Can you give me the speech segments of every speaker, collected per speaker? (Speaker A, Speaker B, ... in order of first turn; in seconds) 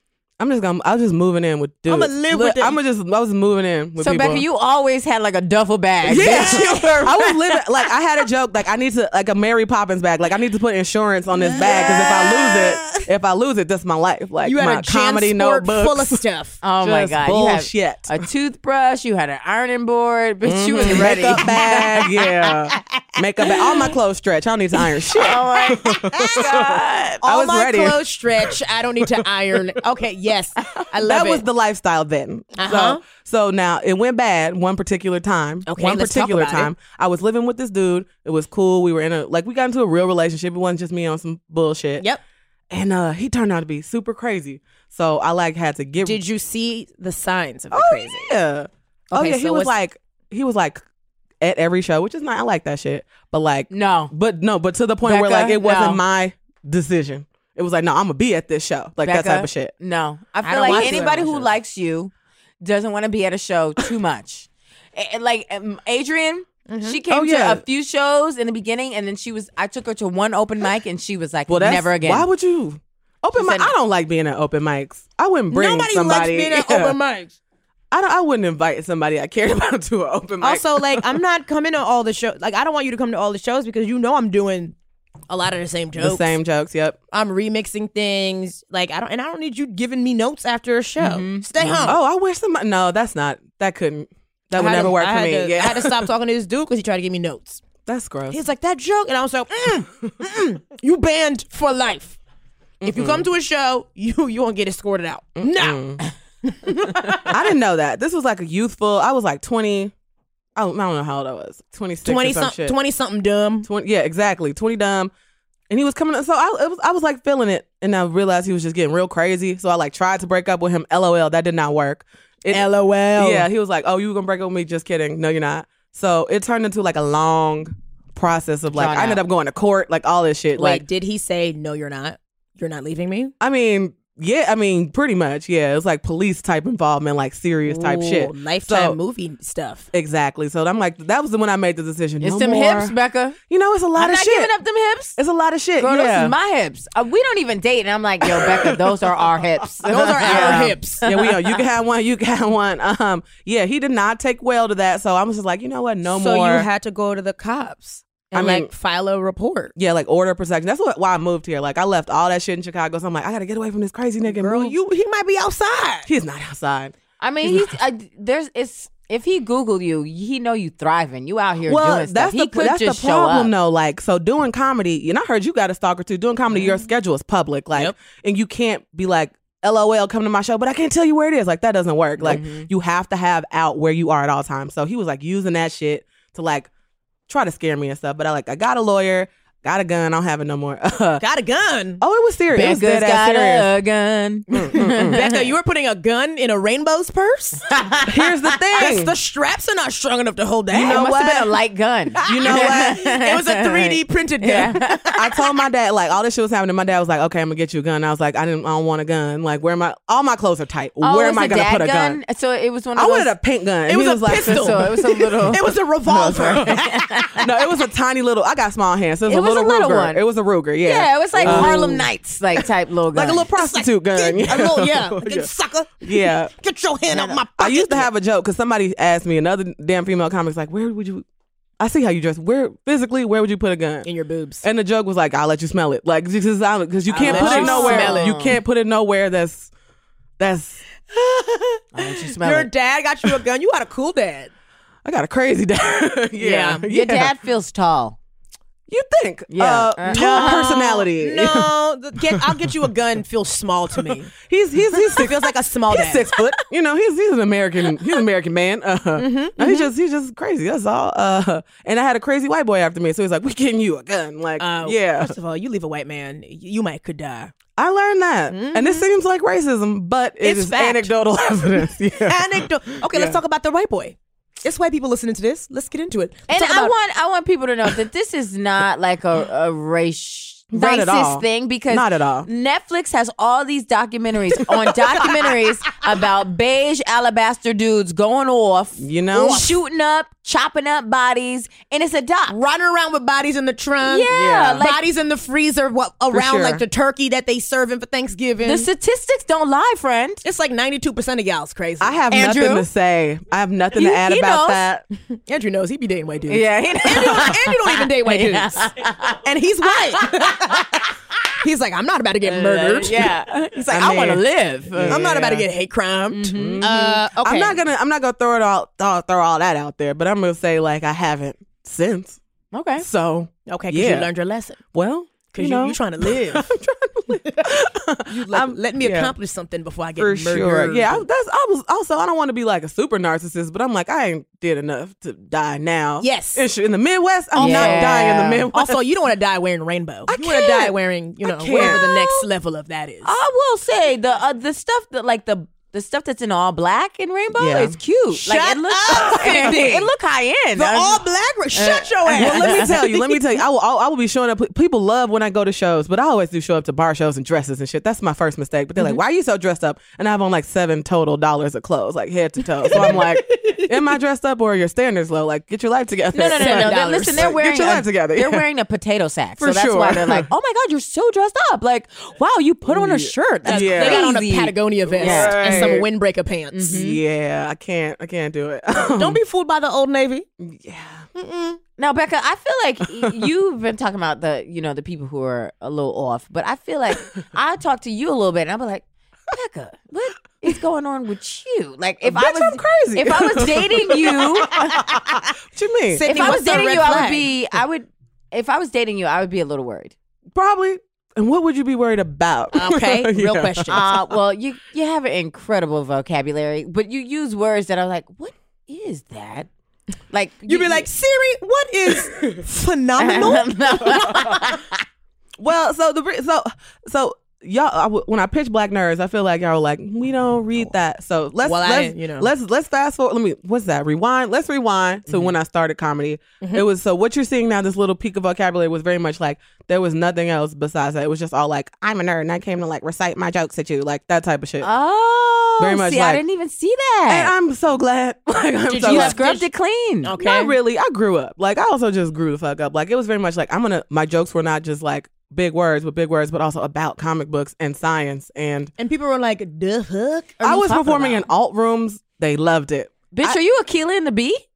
Speaker A: 0.4-4.5, 6.0-16.2, 16.8-18.2, 20.4-28.0, 31.0-42.1, 42.7-46.2, 47.7-50.8, 51.4-59.7, 60.6-61.3, 67.1-67.6, 71.5-77.0, 77.9-81.1, 86.0-87.0, 91.8-96.1, 97.9-98.4, 102.8-103.3, 105.4-106.0, 107.2-109.9, 110.6-112.8, 113.7-115.1, 115.7-122.7, 123.2-130.8, 133.4-139.0, 139.9-143.0, 143.5-144.5, 145.2-146.3, 148.2-149.2, 149.8-156.7, 158.3-158.7, 159.8-164.7, 166.1-167.7, 171.7-186.7, 187.3-191.2, 192.0-193.7, 194.5-195.2, 198.0-199.1, 200.7-201.5, 202.3-203.0, 205.1-212.2, 212.9-215.0, 216.3-216.8, 217.4-222.1, 223.1-225.5, 226.0-226.5, 227.6-231.2, 231.8-234.1, 234.6-239.7, 240.4-240.8, 245.1-247.3, 248.9-251.7, 254.4-265.4, 267.8-273.4, 280.7-282.5, 289.0-289.7, 294.3-294.9, 296.3-296.8, 302.0-305.1, 313.9-315.7, 316.6-322.4, 323.0-324.3, 324.9-329.3, 330.2-339.0, 340.3-342.1, 347.6-348.0, 349.1-349.7, 352.3-368.7, 369.6-370.5, 373.0-374.3, 375.1-376.1, 376.9-379.4, 380.6-381.3, 383.2-383.4, 392.2-397.0, 400.5-404.1, 415.6-434.9, 435.8-436.4, 437.3-439.4, 440.4-448.9, 450.6-453.6
Speaker B: 1.9-2.8, 6.1-7.0, 11.4-13.1, 14.4-16.6, 21.1-21.8, 22.7-23.7, 25.5-26.6, 27.2-31.4, 32.6-33.0, 35.7-36.7, 46.0-48.3, 49.1-49.7, 60.4-61.5, 66.7-67.0, 75.5-77.3, 80.4-84.8, 85.3-86.4, 87.1-92.0, 94.5-97.6, 98.3-102.2, 102.8-105.8, 106.4-107.3, 112.0-113.7, 122.5-123.5, 130.6-133.3, 137.7-139.9, 149.9-151.0, 156.1-159.7, 164.3-166.1, 191.2-192.0, 195.1-197.7, 198.8-201.3, 202.1-205.2, 213.9-217.5, 221.3-222.0, 223.5-228.1, 234.0-234.7, 237.1-238.4, 241.1-244.5, 246.4-246.8, 250.1-254.3, 254.9-256.3, 259.2-259.9, 264.6-267.5, 268.5-269.1, 270.4-271.1, 272.2-276.9, 289.4-289.8, 292.5-298.9, 300.4-302.2, 305.3-308.9, 309.4-311.1, 311.6-313.4, 315.1-317.8, 323.7-324.8, 325.5-326.7, 327.4-327.8, 328.3-331.2, 336.2-336.6, 337.6-343.3, 348.3-350.1, 350.8-353.3, 362.9-363.9, 366.4-367.6, 372.9-377.0, 379.0-380.4, 381.4-381.8, 396.1-397.5, 402.7-404.1, 410.7-414.6, 421.6-422.5, 438.9-439.7, 440.2-440.7, 449.0-451.4
Speaker C: 4.0-7.6, 16.6-22.0, 25.1-27.2, 53.7-54.1, 55.0-56.0, 59.0-72.3, 73.4-73.7, 91.0-91.9, 128.7-129.2, 142.2-143.4, 144.0-145.2, 145.8-151.6, 167.2-173.5, 182.2-182.7, 192.5-195.4, 197.7-198.3, 200.9-205.2, 211.0-213.3, 214.3-217.5, 219.3-220.2, 220.8-223.4, 227.1-227.4, 237.2-238.6, 241.9-242.7, 246.8-248.2, 249.5-250.7, 276.5-292.6, 294.0-295.0, 298.6-300.4, 302.3-302.9, 303.9-304.8, 306.5-311.4, 312.4-315.3, 316.3-316.9, 322.7-323.1, 337.6-338.7, 341.8-342.4, 343.2-353.0, 366.3-376.0, 376.7-377.2, 382.0-395.3, 396.2-400.1, 403.9-409.7, 410.3-411.1, 413.2-415.0, 434.8-437.5, 439.0-440.3, 453.3-454.6